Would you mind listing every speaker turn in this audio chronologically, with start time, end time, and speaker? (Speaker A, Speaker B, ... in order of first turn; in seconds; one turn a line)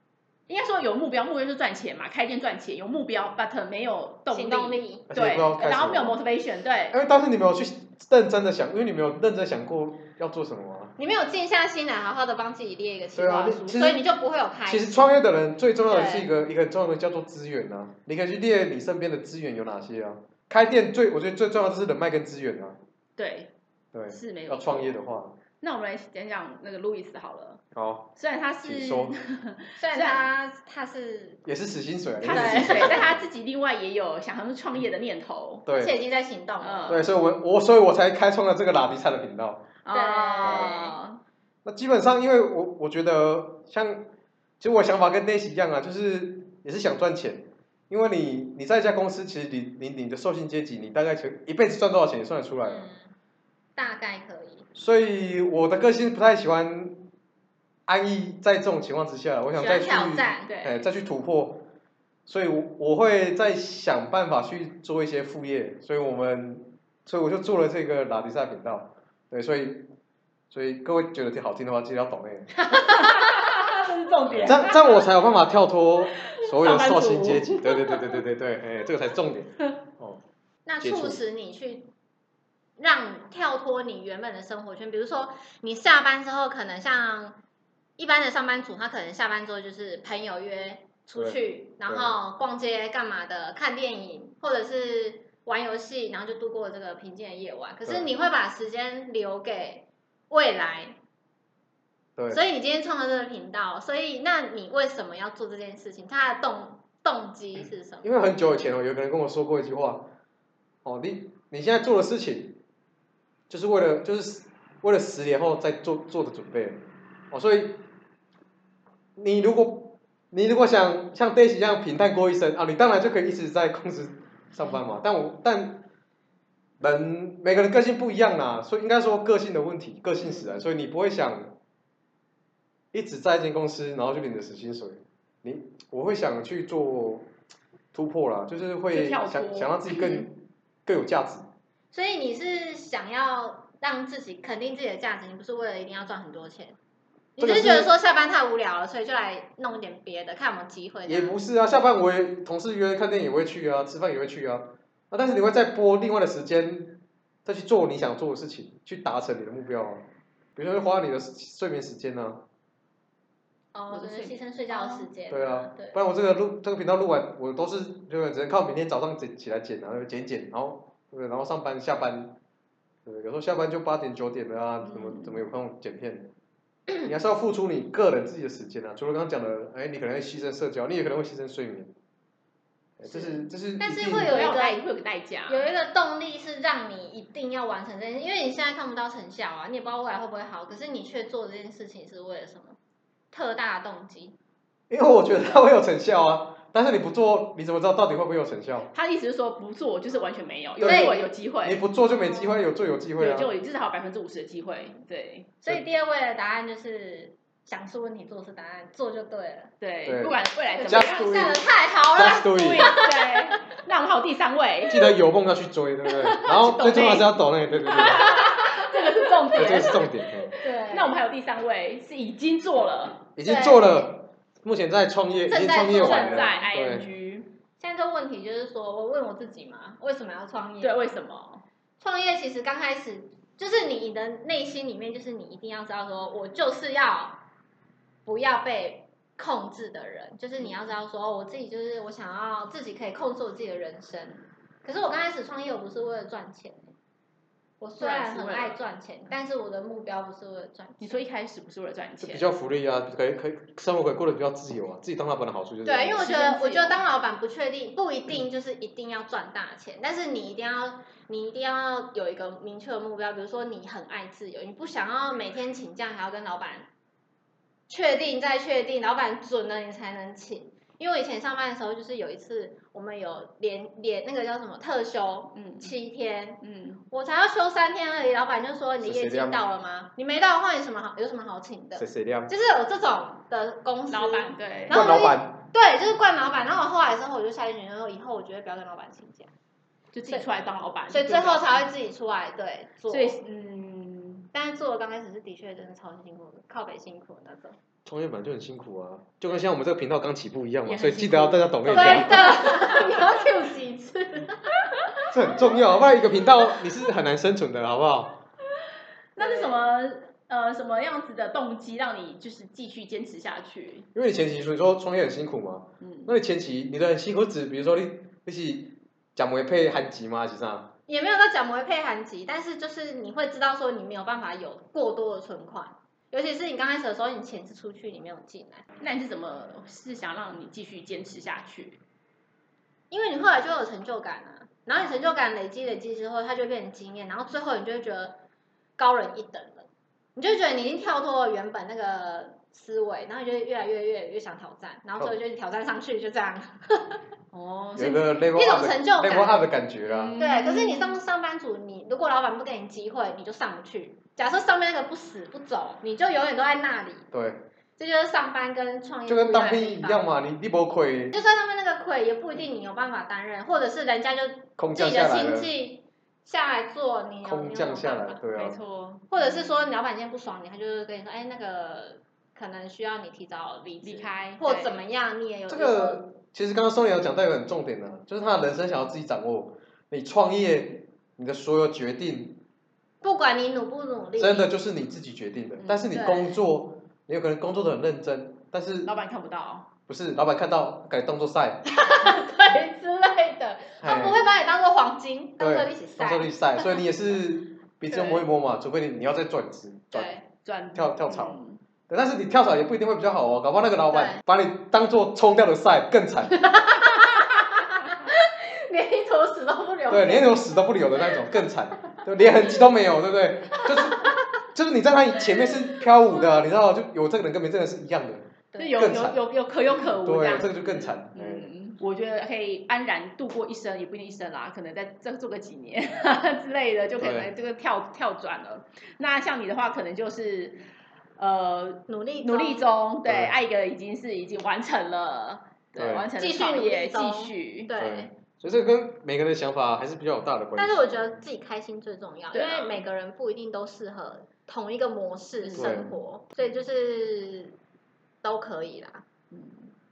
Speaker A: 0.5-7.0
Speaker B: 4.3-5.1
Speaker C: 5.1-6.2
Speaker C: 6.9-10.9
Speaker B: 11.0-15.2
Speaker C: 13.2-14.0
Speaker C: 14.7-22.8
Speaker B: 15.8-16.3
Speaker A: 23.2-23.5
Speaker C: 23.9-25.4
Speaker A: 24.1-25.0
Speaker A: 25.6-27.6
Speaker C: 27.7-28.1
Speaker A: 28.1-30.3
Speaker C: 28.6-29.1
Speaker B: 29.8-31.4
Speaker C: 31.4-33.2
Speaker A: 32.2-35.6
Speaker B: 32.3-33.1
Speaker C: 35.7-36.0
Speaker B: 35.7-37.0
Speaker A: 36.6-37.0
Speaker C: 36.9-39.6
Speaker A: 39.8-41.2
Speaker B: 39.9-41.0
Speaker C: 40.4-40.7
Speaker C: 41.6-44.0
Speaker C: 44.6-52.8
Speaker B: 52.6-53.1
Speaker B: 53.8-54.7
Speaker C: 54.7-57.0
Speaker C: 57.9-61.6
Speaker B: 59.5-60.5
Speaker A: 60.5-60.8
Speaker C: 62.2-69.9
Speaker C: 70.5-72.5
Speaker A: 72.5-75.0
Speaker C: 74.3-80.2
Speaker A: 76.2-78.1
Speaker B: 80.7-81.9
Speaker C: 80.8-81.2
Speaker B: 82.8-87.4
Speaker B: 88.0-100.9
Speaker C: 91.2-92.1
Speaker B: 102.3-108.1
Speaker C: 108.0-110.1
Speaker C: 110.8-112.6
Speaker C: 113.5-117.8
Speaker C: 119.2-125.8
Speaker C: 126.8-131.5
Speaker C: 132.9-137.3
Speaker C: 137.9-141.5
Speaker A: 138.9-140.0
Speaker B: 141.9-146.8
Speaker B: 147.4-151.4
Speaker C: 147.4-147.9
Speaker C: 151.1-160.0
Speaker C: 160.6-162.4
Speaker B: 163.7-166.0
Speaker A: 163.9-165.1
Speaker C: 165.3-172.3
Speaker C: 173.1-176.3
Speaker A: 174.8-175.4
Speaker C: 177.0-181.9
Speaker C: 183.0-184.3
Speaker B: 183.1-184.8
Speaker A: 184.3-185.7
Speaker B: 185.5-192.8
Speaker B: 193.3-194.3
Speaker C: 194.9-198.9
Speaker A: 198.9-201.8
Speaker C: 200.8-203.5
Speaker B: 200.8-201.3
Speaker A: 203.2-205.5
Speaker B: 205.6-209.7
Speaker A: 209.8-211.6
Speaker C: 210.0-212.9
Speaker B: 210.4-213.4
Speaker A: 212.2-215.1
Speaker C: 214.9-218.4
Speaker A: 216.1-217.3
Speaker A: 217.9-223.2
Speaker C: 219.6-220.5
Speaker B: 220.6-221.2
Speaker C: 223.4-227.1
Speaker B: 223.4-224.1
Speaker B: 225.5-226.6
Speaker A: 225.8-227.5
Speaker B: 227.8-231.0
Speaker A: 230.8-231.6
Speaker B: 232.0-237.4
Speaker B: 238.2-246.9
Speaker B: 247.8-251.2
Speaker A: 248.0-248.8
Speaker A: 251.0-252.5
Speaker C: 252.2-256.2
Speaker B: 255.8-266.9
Speaker A: 256.2-257.0
Speaker B: 267.9-289.5
Speaker A: 275.6-275.9
Speaker A: 276.6-277.0
Speaker C: 279.0-279.6
Speaker C: 282.0-282.5
Speaker A: 284.1-285.0
Speaker C: 284.9-285.5
Speaker A: 290.1-291.8
Speaker B: 291.1-293.4
Speaker A: 293.1-294.5
Speaker B: 294.5-297.8
Speaker C: 298.1-302.4
Speaker A: 300.8-303.5
Speaker B: 301.9-304.8
Speaker C: 305.3-308.4
Speaker A: 309.4-314.1
Speaker B: 309.4-309.8
Speaker C: 314.1-320.9
Speaker A: 316.0-316.3
Speaker B: 321.1-328.8
Speaker A: 329.0-332.0
Speaker B: 333.1-338.4
Speaker B: 339.0-347.2
Speaker A: 347.5-348.2
Speaker C: 347.9-350.4
Speaker B: 348.4-349.7
Speaker A: 350.1-351.1
Speaker B: 350.4-357.2
Speaker C: 357.3-357.6
Speaker B: 358.0-360.2
Speaker C: 359.3-361.3
Speaker B: 361.3-368.4
Speaker C: 364.8-365.7
Speaker C: 367.4-368.8
Speaker A: 368.5-369.3
Speaker B: 369.3-376.2
Speaker A: 374.0-375.0
Speaker C: 375.7-382.6
Speaker B: 383.2-384.7
Speaker C: 384.4-389.1
Speaker A: 385.8-386.0
Speaker B: 386.1-386.6
Speaker A: 389.1-389.9
Speaker C: 390.1-391.8
Speaker B: 391.9-397.1
Speaker C: 394.0-394.4
Speaker C: 395.6-400.3
Speaker A: 398.1-398.4
Speaker B: 400.1-400.4
Speaker A: 400.6-401.8
Speaker C: 400.9-401.6
Speaker C: 402.1-406.7
Speaker B: 404.1-404.4
Speaker B: 406.6-407.6
Speaker B: 408.2-410.6
Speaker C: 410.1-419.4
Speaker B: 413.7-414.4
Speaker B: 418.7-419.0
Speaker A: 418.8-430.8
Speaker C: 420.2-421.7
Speaker C: 427.2-427.5
Speaker A: 431.4-437.9
Speaker B: 432.1-432.9
Speaker C: 433.2-433.5
Speaker C: 435.9-436.3
Speaker B: 436.4-438.3
Speaker C: 438.0-441.3
Speaker B: 440.8-447.8
Speaker A: 442.5-443.0
Speaker A: 445.6-446.1
Speaker C: 445.8-446.1
Speaker B: 448.4-449.2
Speaker A: 449.5-449.9